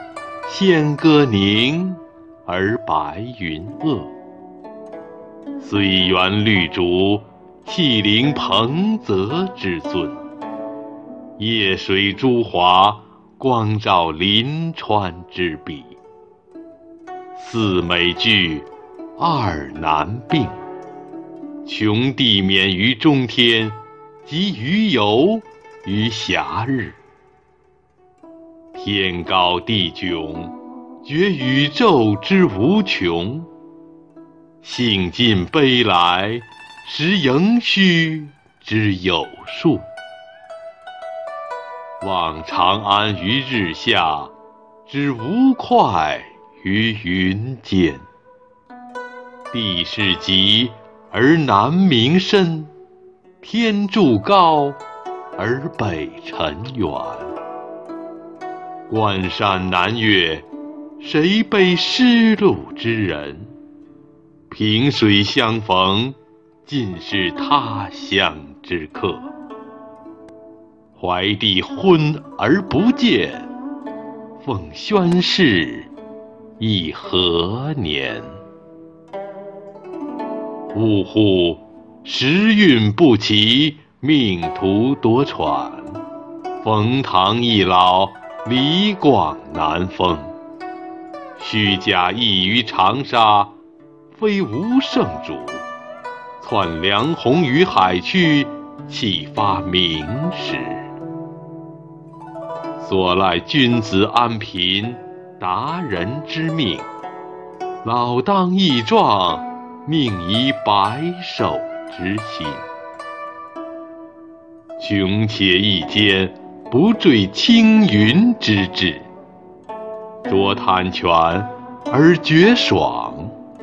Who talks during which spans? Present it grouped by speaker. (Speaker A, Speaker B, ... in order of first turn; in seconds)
Speaker A: 0.5-4.1, 5.6-10.2, 11.4-16.0, 17.3-20.6, 21.6-27.0, 28.7-33.5, 34.6-39.9, 42.0-44.3, 44.9-48.1, 49.5-52.7, 53.4-54.8, 55.4-57.4, 58.9-60.5, 61.0-63.5, 64.5-69.3, 71.0-73.5, 74.4-75.9, 76.6-78.4, 80.7-86.0, 86.6-90.3, 91.4-93.6, 94.1-95.7, 96.4-100.9, 102.8-106.9, 107.8-112.7, 114.8-119.1, 120.3-123.3